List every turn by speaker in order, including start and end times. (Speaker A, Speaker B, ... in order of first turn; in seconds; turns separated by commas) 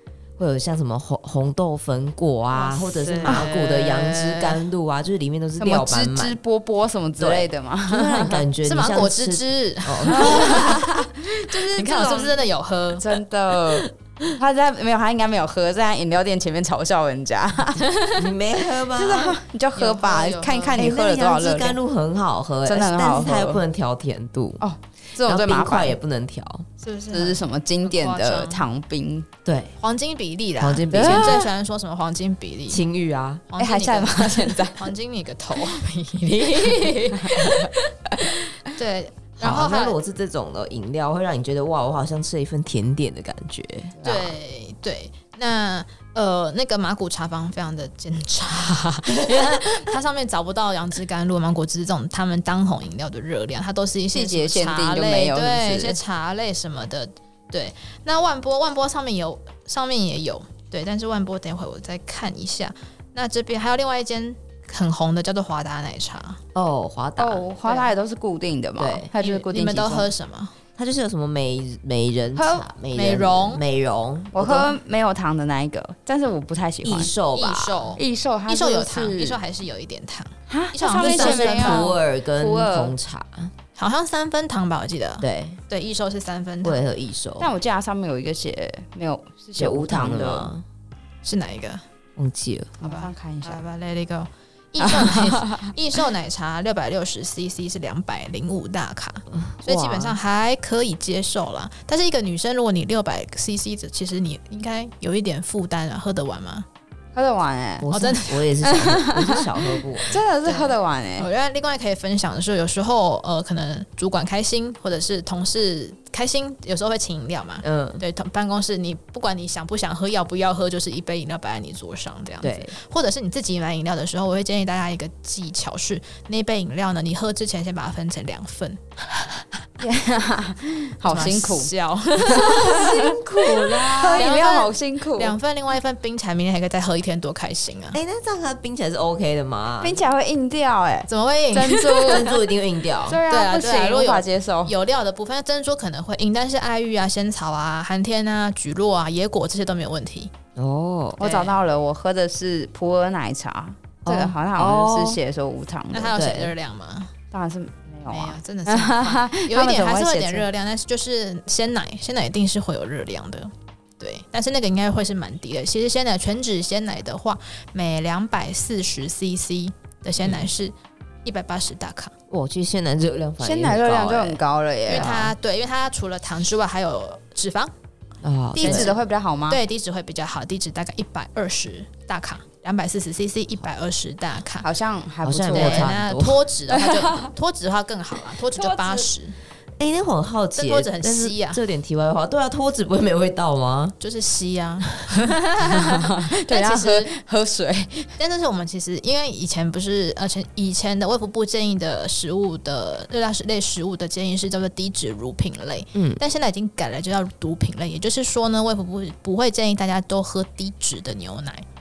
Speaker A: 0.4-6.4, Speaker B: 2.5-4.6, Speaker C: 5.6-8.4, Speaker A: 7.2-10.8, Speaker B: 8.6-10.9, Speaker C: 10.1-12.4, Speaker B: 11.6-13.2, Speaker C: 12.9-17.9, Speaker A: 18.1-19.4, Speaker C: 18.9-21.8, Speaker B: 19.8-20.8, Speaker A: 20.8-24.6, Speaker C: 22.6-23.6, Speaker C: 24.6-26.0, Speaker A: 25.2-26.7, Speaker B: 26.8-28.6, Speaker C: 27.1-29.3, Speaker A: 29.4-29.7, Speaker B: 29.8-32.8, Speaker A: 30.6-31.5, Speaker C: 30.9-31.5, Speaker A: 32.7-33.4, Speaker B: 33.5-40.0, Speaker C: 33.6-34.9, Speaker A: 36.5-36.9, Speaker C: 37.2-37.7, Speaker A: 39.4-44.0, Speaker C: 44.0-44.3, Speaker B: 44.0-66.4, Speaker C: 54.1-56.0, Speaker A: 66.5-67.5, Speaker C: 67.2-70.1, Speaker A: 68.8-69.1, Speaker B: 69.2-70.5, Speaker A: 70.8-74.7, Speaker C: 72.4-72.7, Speaker B: 73.0-73.6, Speaker C: 74.3-77.1, Speaker A: 76.8-77.9, Speaker B: 77.3-82.0, Speaker C: 78.0-79.4, Speaker C: 80.5-83.0, Speaker A: 81.0-83.5, Speaker B: 83.8-86.8, Speaker A: 85.2-85.6, Speaker A: 86.6-87.5, Speaker C: 87.4-90.5, Speaker A: 89.6-90.6, Speaker B: 91.2-91.8, Speaker A: 92.2-92.8, Speaker C: 92.8-93.6, Speaker B: 92.8-106.7, Speaker C: 94.8-95.7, Speaker A: 99.3-100.2, Speaker C: 107.1-107.9, Speaker A: 107.8-110.2, Speaker B: 107.9-108.5, Speaker C: 108.6-111.3, Speaker B: 110.5-128.8, Speaker A: 117.6-118.0, Speaker A: 122.4-122.7, Speaker C: 129.8-131.7, Speaker B: 131.1-138.0, Speaker A: 132.2-134.3, Speaker C: 132.3-135.3, Speaker A: 137.9-140.0, Speaker C: 139.8-142.3, Speaker B: 141.1-142.3, Speaker A: 142.0-143.2, Speaker C: 143.1-144.7, Speaker B: 143.3-150.3, Speaker A: 150.6-151.2, Speaker C: 151.2-156.4, Speaker B: 151.2-151.6, Speaker A: 154.1-155.2, Speaker B: 155.9-157.1, Speaker A: 156.2-156.5, Speaker C: 157.3-160.5, Speaker B: 158.1-170.7, Speaker A: 170.2-170.5, Speaker B: 171.2-172.1, Speaker A: 172.3-174.4, Speaker C: 173.4-175.3, Speaker B: 174.9-177.7, Speaker A: 174.9-175.3, Speaker A: 178.2-178.9, Speaker B: 178.6-184.7, Speaker C: 178.6-179.6, Speaker C: 184.6-185.9, Speaker A: 185.2-186.4, Speaker B: 185.5-189.4, Speaker C: 186.7-187.3, Speaker C: 188.4-189.1, Speaker A: 189.8-194.0, Speaker B: 190.6-191.6, Speaker B: 194.0-197.1, Speaker C: 195.6-198.1, Speaker B: 198.2-211.7, Speaker A: 205.9-206.2